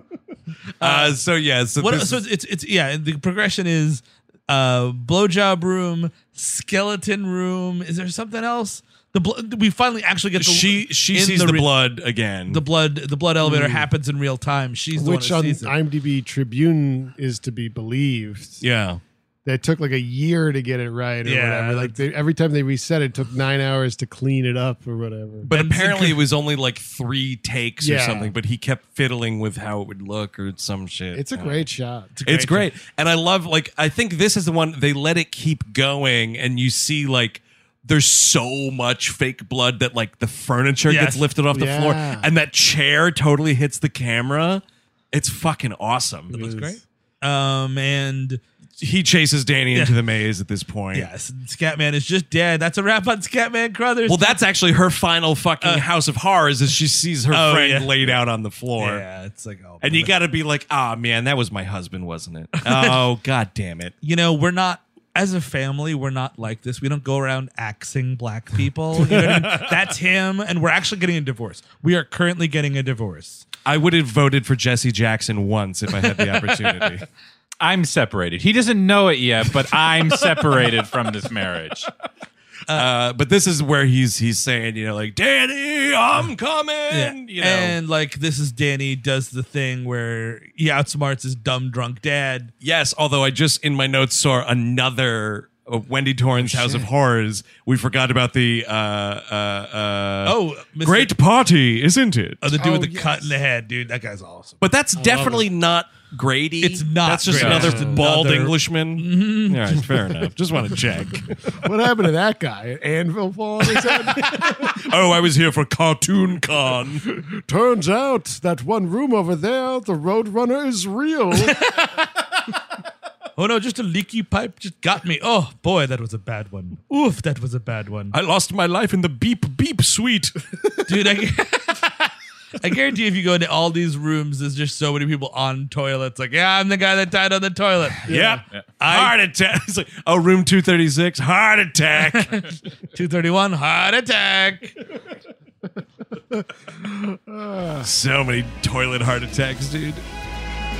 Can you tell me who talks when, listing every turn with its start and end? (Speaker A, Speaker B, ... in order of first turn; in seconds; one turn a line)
Speaker A: 0.8-1.2
Speaker B: 0.8-2.2
Speaker A: 1.8-11.7
Speaker B: 10.4-12.6
Speaker A: 12.5-15.7
Speaker C: 13.4-13.9
Speaker C: 14.9-18.6
Speaker B: 18.6-19.0
Speaker C: 19.4-25.5
Speaker A: 21.2-22.0
Speaker B: 25.5-31.7
Speaker A: 25.5-26.2
Speaker C: 27.8-28.3
Speaker C: 31.1-32.1
Speaker A: 32.1-32.7
Speaker B: 32.2-46.4
Speaker A: 40.9-41.3
Speaker C: 41.5-42.3
Speaker A: 46.3-48.4
Speaker C: 46.4-46.8
Speaker B: 48.8-51.1
Speaker A: 49.7-50.0
Speaker A: 50.9-54.4
Speaker B: 54.0-59.0
Speaker A: 55.6-55.9
Speaker A: 57.3-58.2
Speaker A: 58.8-60.1
Speaker B: 59.8-63.9
Speaker A: 62.5-63.0
Speaker A: 64.0-73.4
Speaker B: 69.0-69.7
Speaker B: 73.6-77.0
Speaker D: 77.6-81.9
Speaker B: 82.7-87.8
Speaker A: 86.9-92.5
Speaker B: 92.6-102.6
Speaker A: 96.4-96.9
Speaker A: 100.2-101.2
Speaker A: 102.4-104.6
Speaker C: 102.5-103.3
Speaker B: 104.6-111.3
Speaker C: 105.0-105.5
Speaker A: 106.6-110.1
Speaker D: 107.3-107.7
Speaker C: 107.5-108.0
Speaker C: 111.4-114.7
Speaker B: 114.2-117.0
Speaker C: 117.1-121.6
Speaker A: 121.4-122.1
Speaker A: 123.4-128.1
Speaker B: 128.1-130.7
Speaker A: 130.8-138.1
Speaker C: 138.1-138.4
Speaker B: 138.1-142.4
Speaker A: 138.8-139.1
Speaker A: 142.0-144.8
Speaker C: 146.3-147.9
Speaker B: 147.8-150.0